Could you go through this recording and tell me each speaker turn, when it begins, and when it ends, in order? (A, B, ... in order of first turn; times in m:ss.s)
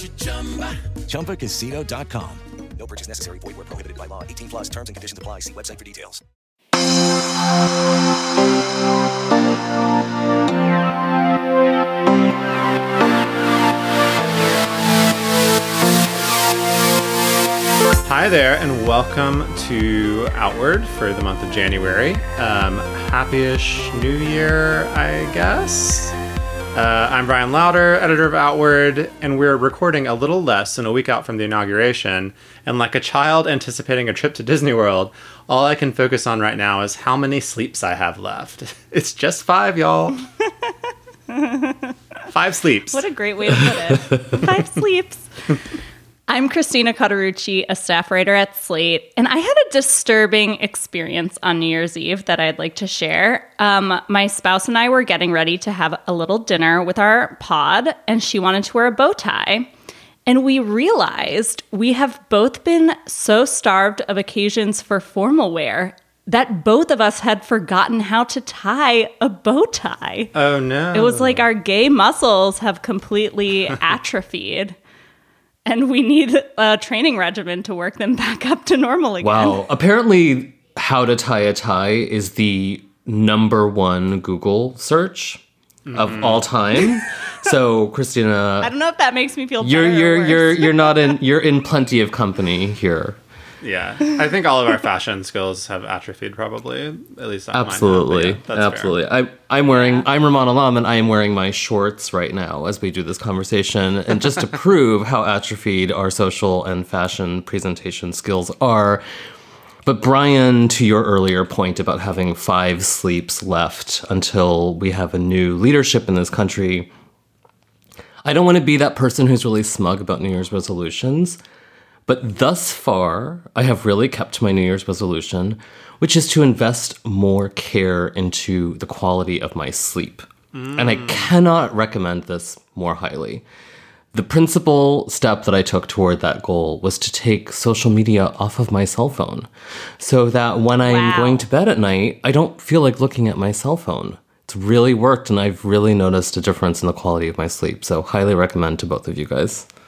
0:01.1-0:06.2 A
0:18.0-0:26.2 B
0:26.7-0:40.2 B
0:41.3-0:41.9 C
0:42.3-0:43.0 B
0:42.9-0:45.3 C
0:46.3-0:59.7 C
1:00.3-1:10.3 C
1:10.4-1:11.4 B
1:10.9-1:14.8 C
1:15.7-1:19.6 C
1:19.2-1:25.4 D
1:25.9-1:26.5 B
1:25.9-1:28.7 D
1:28.6-1:30.9 C
1:29.6-1:33.2 D
1:33.6-1:39.0 B
1:37.5-1:49.0 D
1:39.8-1:40.0 C
1:49.8-1:56.9 D
1:58.2-2:01.4 D
2:02.1-2:13.4 D
2:10.5-2:11.3 B
2:14.1-2:29.7 D
2:20.8-2:21.4 C